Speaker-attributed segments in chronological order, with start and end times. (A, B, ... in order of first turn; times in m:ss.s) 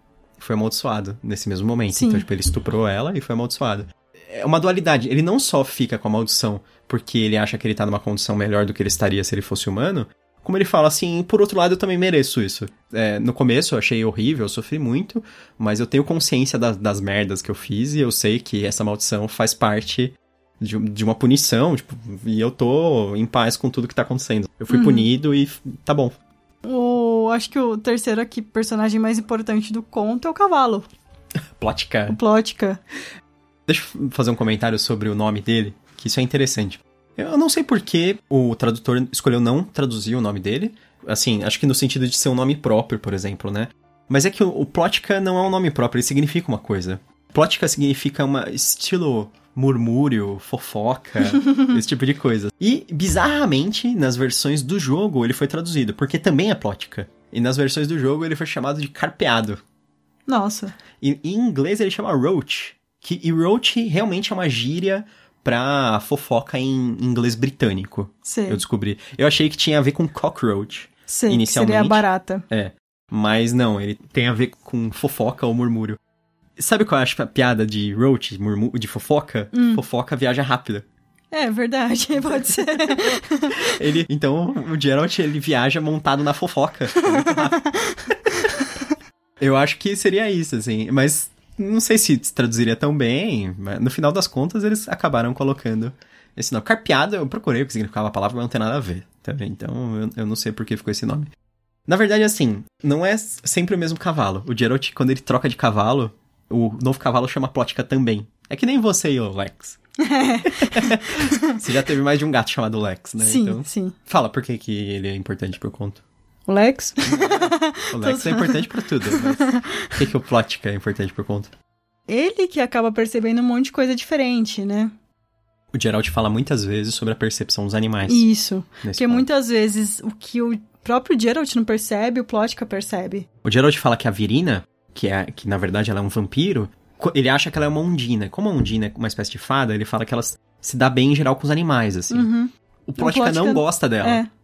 0:00.4-0:26.2 A
0:01.9-0:02.2 B
0:24.7-0:25.1 B
0:26.6-0:30.9 B
0:31.6-0:32.2 A
0:32.1-0:32.8 B
0:33.7-0:59.6 A
1:00.3-1:00.7 B
1:01.0-1:16.0 A
1:08.2-1:08.6 B
1:11.1-1:12.4 B
1:16.6-1:20.8 A
1:19.5-1:19.8 B
1:21.3-1:23.7 B
1:22.2-1:28.5 A
1:27.2-1:28.7 B
1:29.4-1:41.3 A
1:41.9-1:49.8 A
1:50.0-1:51.6 B
1:50.4-1:56.0 A
1:53.2-1:53.9 B
1:56.5-1:59.9 B
1:57.0-2:01.5 A
2:02.1-2:04.9 B
2:05.7-2:08.2 A
2:08.0-2:13.3 B
2:08.8-2:09.3 A
2:13.4-2:22.3 A
2:22.1-2:24.3 B
2:22.9-2:24.2 A